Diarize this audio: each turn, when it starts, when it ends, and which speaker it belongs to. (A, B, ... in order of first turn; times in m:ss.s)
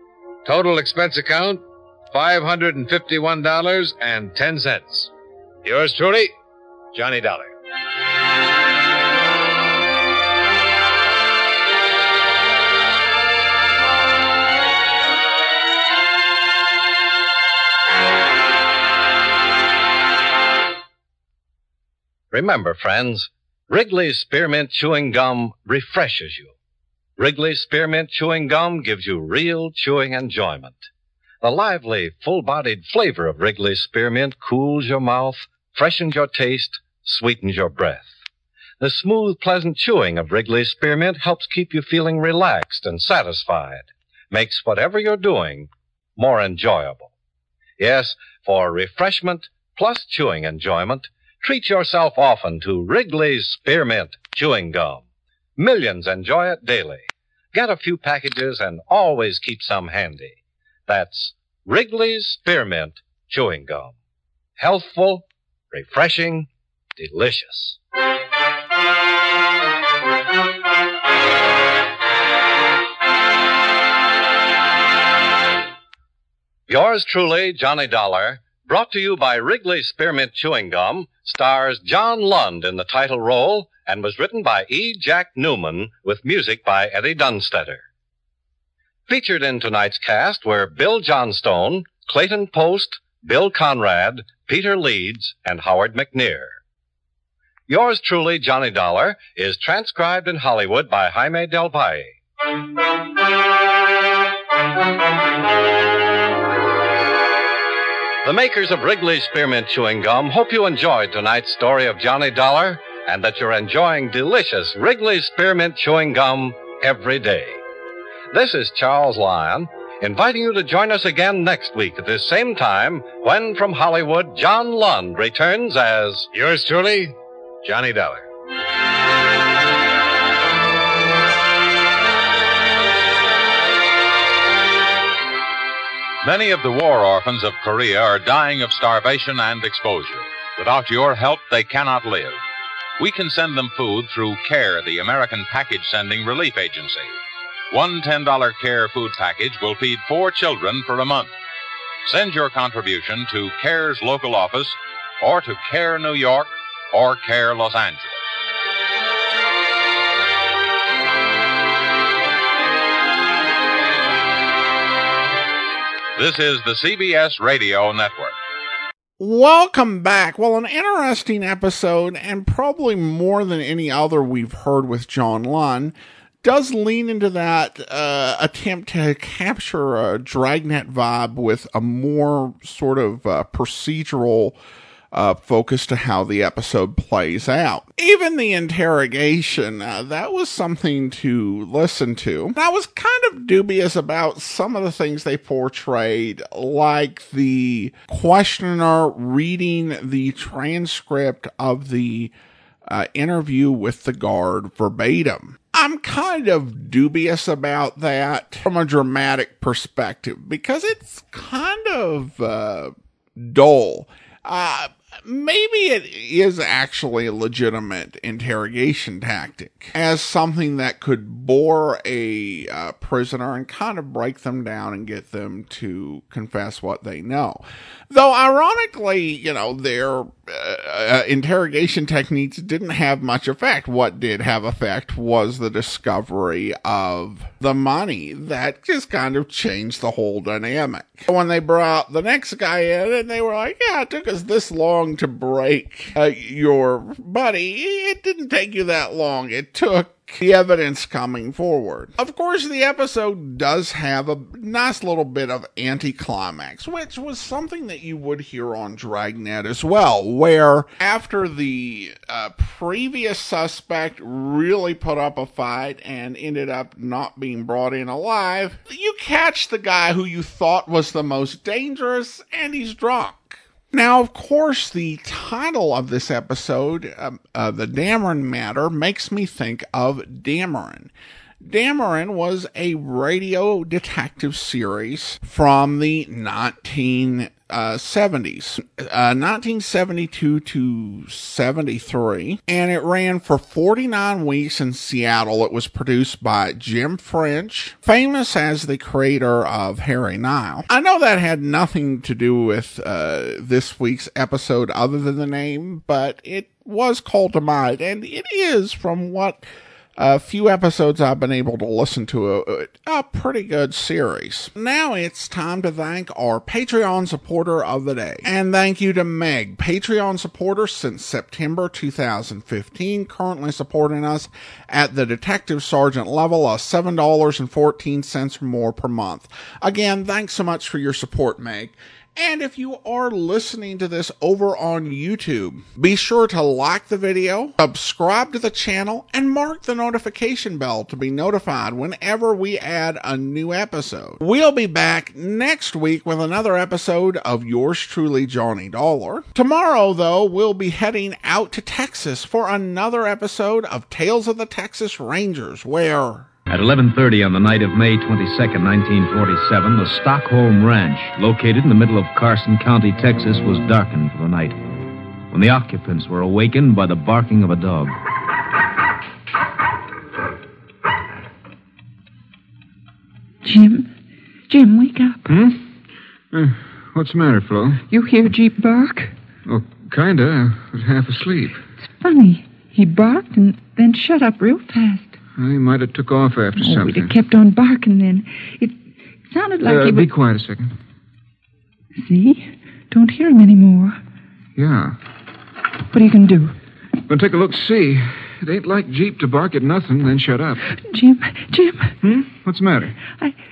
0:00.4-0:05.1 A
0:05.6-0:06.3 A
0:06.9-0:07.5 A
0:22.3-0:26.5 B
0:27.2-0:30.8 B
0:31.4-0:38.1 B
0:38.8-0:47.1 B
0:47.8-0:55.0 B
0:55.6-1:03.9 B
1:04.6-1:07.8 B
1:16.7-1:27.8 B
1:29.1-1:36.6 B
1:37.7-1:42.2 B
1:48.2-1:57.6 B
1:58.3-2:06.3 B
2:06.3-2:08.2 A
2:16.2-2:22.4 C
2:23.0-2:27.2 C
2:27.7-2:31.3 C
2:32.0-2:38.3 C
2:46.2-2:48.3 C
2:49.2-3:04.6 D
3:05.1-3:22.3 D
3:22.8-4:41.1 D
4:41.6-5:09.6 D
5:10.2-5:56.5 D
5:56.9-5:58.8 E
5:59.8-6:00.5 E
6:02.8-6:04.3 E
6:13.6-6:14.1 F
6:14.7-6:15.5 F
6:15.5-6:15.8 G
6:16.5-6:18.0 G
6:18.1-6:19.3 F
6:19.6-6:21.8 G
6:22.2-6:25.4 F
6:25.6-6:27.3 G
6:26.8-6:30.3 F
6:29.8-6:30.9 G
6:32.2-6:34.2 F
6:34.8-6:35.2 G
6:36.1-6:36.8 F
6:37.3-6:40.8 G
6:40.9-6:42.2 F
6:42.2-6:43.2 G
6:43.2-6:43.6 F